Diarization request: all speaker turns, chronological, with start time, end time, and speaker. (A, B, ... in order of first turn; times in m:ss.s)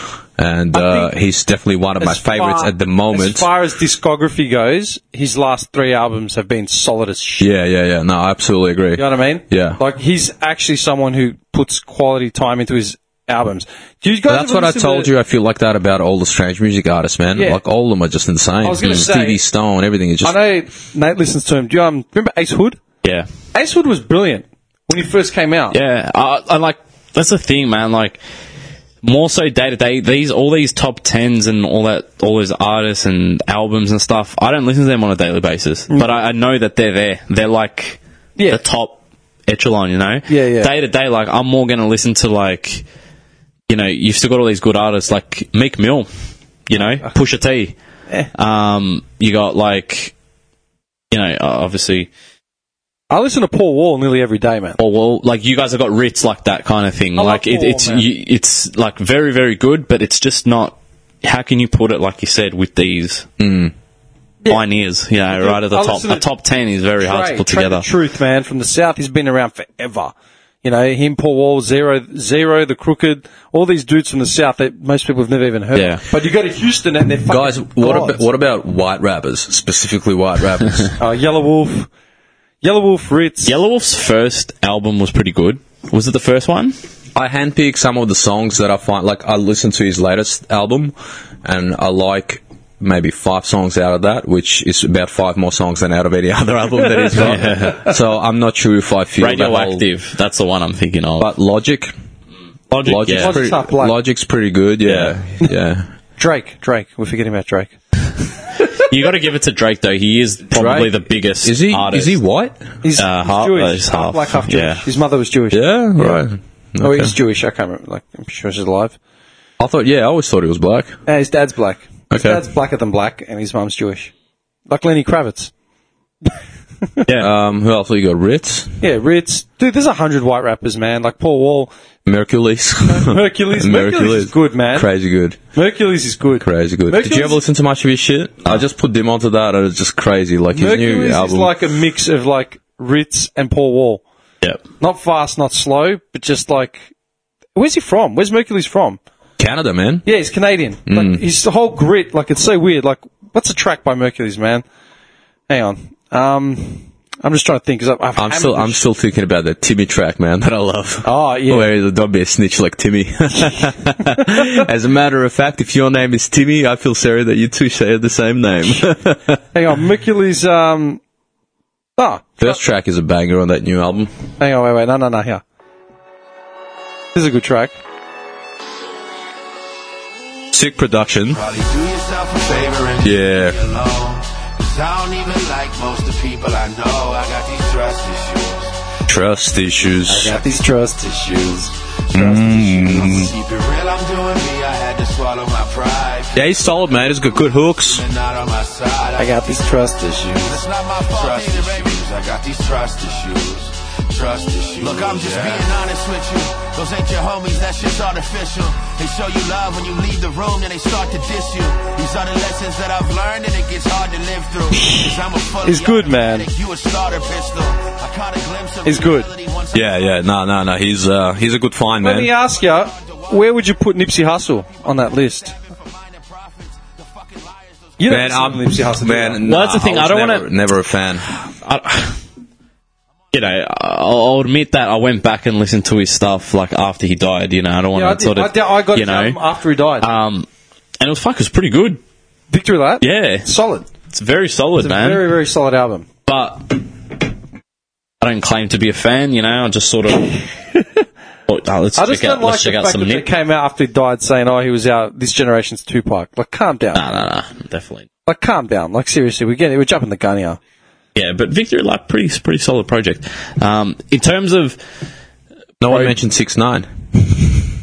0:00.4-0:03.5 A
0:00.7-0:01.1 B
0:02.0-0:07.4 B
0:07.4-0:09.8 A
0:09.0-0:15.1 B
0:14.3-0:20.4 A
0:17.3-0:17.6 B
0:18.6-0:19.4 B
0:20.2-0:22.8 B
0:23.5-0:25.8 B
0:25.7-0:28.2 C
0:29.0-0:38.0 C
0:38.5-0:42.8 C
0:40.3-0:40.7 B
0:43.7-0:46.1 C
0:46.7-0:47.8 C
0:46.8-0:47.1 B
0:48.3-0:50.1 C
0:51.1-0:52.1 C
0:53.1-0:54.8 B
0:54.8-1:03.2 C
0:57.2-0:58.0 B
1:03.4-1:03.7 A
1:04.5-1:07.8 C
1:05.3-1:06.2 B
1:07.0-1:18.2 B
1:15.7-1:16.0 C
1:17.3-1:20.9 A
1:21.0-1:21.9 B
1:22.6-1:23.5 B
1:23.4-1:26.8 C
1:27.1-1:39.8 A
1:37.1-1:37.8 C
1:39.2-1:41.3 C
1:41.2-1:41.9 A
1:42.7-1:43.4 C
1:42.8-1:45.9 A
1:43.1-1:43.9 B
1:44.8-1:45.1 C
1:46.2-1:47.7 B
1:48.7-1:52.2 C
1:50.5-1:52.6 A
1:52.8-1:56.2 B
1:53.0-1:54.8 C
1:55.5-1:57.1 A
1:56.8-1:59.0 B
1:59.6-2:00.9 A
2:01.1-2:04.1 B
2:02.1-2:02.4 A
2:04.7-2:05.5 B
2:07.1-2:08.7 A
2:08.8-2:11.7 B
2:12.0-2:15.4 A
2:12.9-2:14.9 B
2:15.5-2:17.4 B
2:16.4-2:21.6 A
2:20.5-2:24.0 B
2:24.8-2:26.8 B
2:27.6-2:29.0 B
2:29.4-2:30.1 A
2:30.0-2:34.6 B
2:30.9-2:31.2 A
2:35.5-2:38.8 B
2:38.2-2:49.4 A
2:41.0-2:41.7 B
2:49.5-2:51.0 B
2:52.0-2:52.6 B
2:52.4-2:54.1 A
2:54.4-2:55.4 B
2:57.1-2:57.7 B
3:00.5-3:01.4 A
3:01.3-3:08.8 D
3:03.0-3:03.6 A
3:09.1-3:10.4 A
3:10.1-3:12.4 B
3:12.1-3:13.3 A
3:12.2-3:19.6 D
3:16.3-3:18.0 A
3:19.2-3:20.6 B
3:20.4-3:40.1 D
3:35.6-3:36.5 B
3:38.8-3:39.3 B
3:39.7-3:42.3 A
3:42.0-3:45.6 B
3:42.7-3:43.5 D
3:45.4-3:48.3 D
3:48.0-3:49.4 B
3:48.1-3:51.3 A
3:49.4-3:50.5 C
3:51.3-3:52.2 C
3:53.3-3:59.4 C
3:57.9-4:00.1 B
4:00.0-4:00.5 C
4:01.0-4:02.0 C
4:02.5-4:03.9 B
4:03.0-4:03.5 C
4:04.1-4:05.2 C
4:04.8-4:06.0 B
4:06.2-4:06.8 C
4:08.2-4:10.4 C
4:11.5-4:13.3 C
4:12.0-4:17.0 B
4:16.9-4:18.1 C
4:18.2-4:20.6 B
4:21.1-4:24.8 C
4:25.8-4:27.7 A
4:25.9-4:26.1 C